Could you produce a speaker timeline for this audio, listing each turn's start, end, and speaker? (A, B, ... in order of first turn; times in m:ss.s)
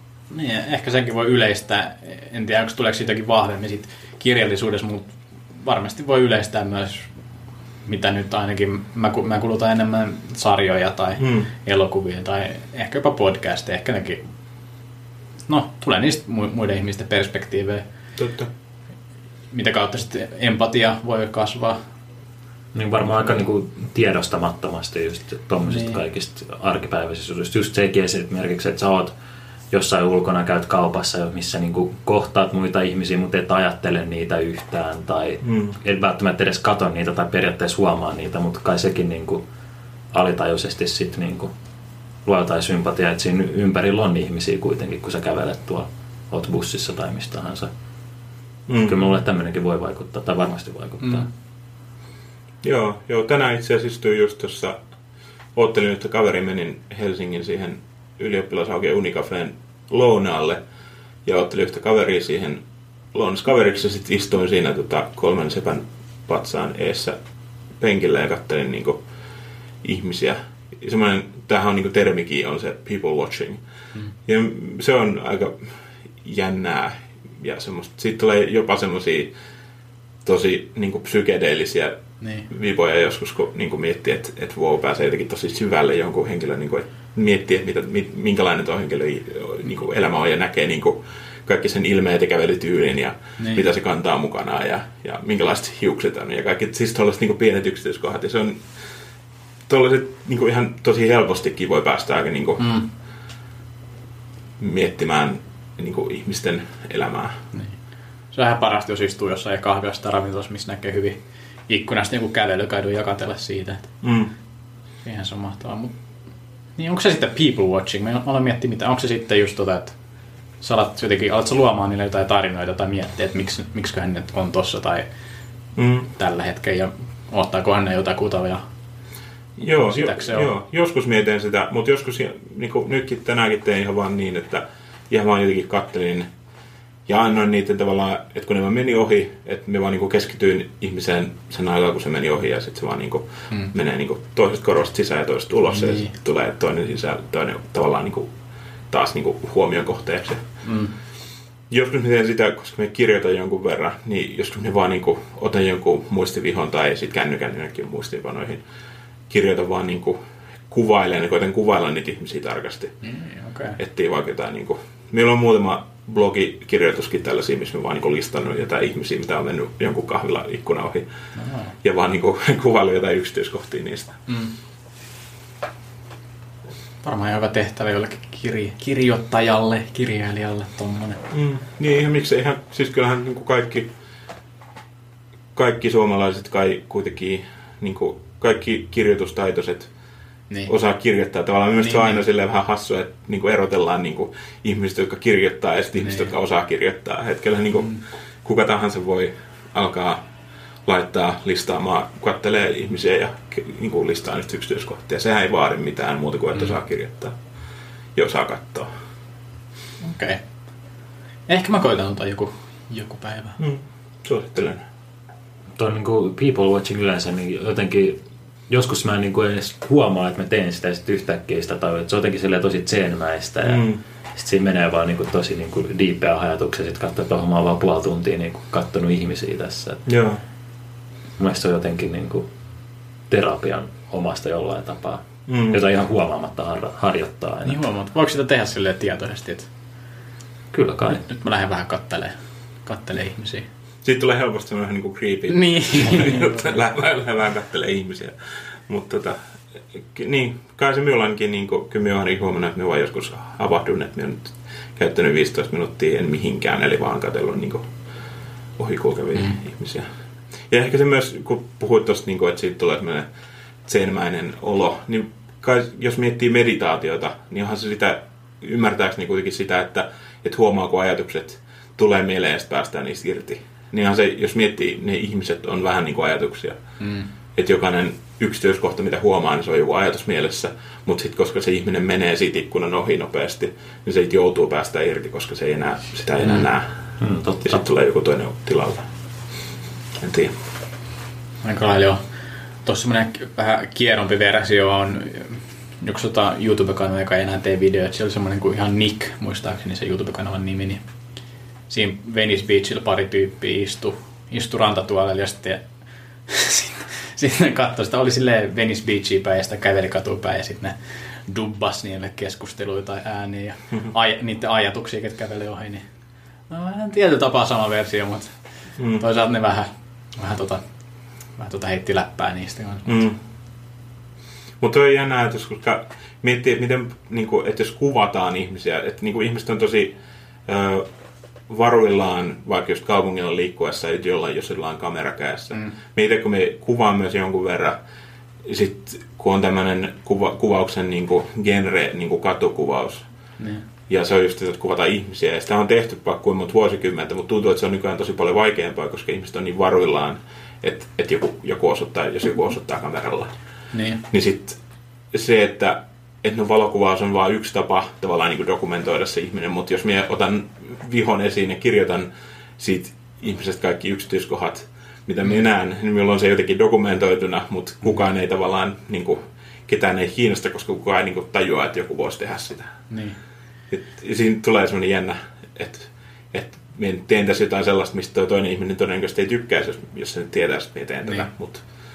0:00.3-0:07.1 A
0:07.8-0:14.2 A
0:11.2-0:11.5 B
0:15.5-0:17.8 A
0:18.2-0:18.5 B
0:19.5-0:21.8 A
0:22.7-0:29.1 C
0:25.7-0:26.0 A
0:29.7-0:39.4 C
0:35.4-0:35.8 B
0:40.1-0:41.5 C
0:42.2-0:47.7 C
0:48.7-0:49.0 B
0:48.8-0:51.3 C
0:52.6-0:54.8 B
0:55.5-1:00.6 B
1:01.2-1:02.6 B
1:03.1-1:07.2 B
1:07.8-1:09.0 B
1:09.8-1:13.6 B
1:14.2-1:15.7 B
1:16.2-1:19.3 B
1:20.2-1:22.0 B
1:22.2-1:22.4 A
1:22.5-1:38.6 B
1:33.4-1:33.7 A
1:39.7-1:42.6 B
1:42.6-1:42.9 A
1:44.6-1:47.4 B
1:48.3-1:51.2 A
1:51.7-1:53.9 A
1:54.0-1:54.3 B
1:55.0-1:55.9 A
1:56.8-2:00.0 A
2:00.6-2:05.1 A
2:05.8-2:06.1 B
2:06.1-2:08.6 A
2:09.6-2:16.3 B
2:09.8-2:10.5 A
2:17.1-2:28.3 B
2:25.7-2:26.1 A
2:28.9-2:30.6 B
2:30.6-2:30.9 A
2:31.7-2:38.6 B
2:39.3-2:40.2 B
2:40.7-2:42.9 B
2:43.0-2:43.8 A
2:43.8-2:51.1 B
2:51.3-2:51.7 A
2:51.8-2:54.2 B
2:54.3-2:54.5 A
2:57.0-3:01.2 A
3:01.3-3:03.9 B
3:05.5-3:09.9 B
3:10.7-3:20.2 B
3:11.8-3:12.2 A
3:16.0-3:16.3 A
3:20.8-3:27.4 B
3:28.1-3:28.9 B
3:30.0-3:30.4 A
3:31.5-3:33.6 A
3:33.6-3:34.8 B
3:35.8-3:50.0 C
3:43.6-3:44.0 B
3:50.1-3:50.4 B
3:51.4-3:52.5 C
3:53.3-3:57.8 C
3:55.5-3:55.8 B
3:57.6-3:59.7 A
4:00.7-4:01.2 C
4:01.1-4:02.3 A
4:02.8-4:03.7 A
4:04.0-4:09.4 B
4:05.5-4:06.7 A
4:10.0-4:17.9 B
4:18.8-4:20.1 B
4:20.7-4:23.3 B
4:23.8-4:36.8 B
4:37.0-4:37.3 A
4:37.6-4:47.0 B
4:47.2-4:47.8 C
4:47.6-4:49.0 B
4:50.2-4:50.5 B
4:51.6-4:52.2 A
4:52.8-5:01.0 A
5:01.9-5:05.8 A
5:06.5-5:16.0 A
5:16.7-5:18.6 A
5:19.0-5:19.2 B
5:19.1-5:20.8 A
5:21.6-5:23.2 A
5:23.1-5:23.4 B
5:24.8-5:30.2 B
5:30.7-5:31.1 B
5:31.7-5:38.0 B
5:38.6-5:43.2 B
5:43.6-5:43.8 A
5:44.1-5:53.5 B
5:53.9-5:54.2 A
5:54.3-5:54.8 B
5:55.3-6:12.9 B
6:13.1-6:13.4 A
6:13.9-6:21.8 B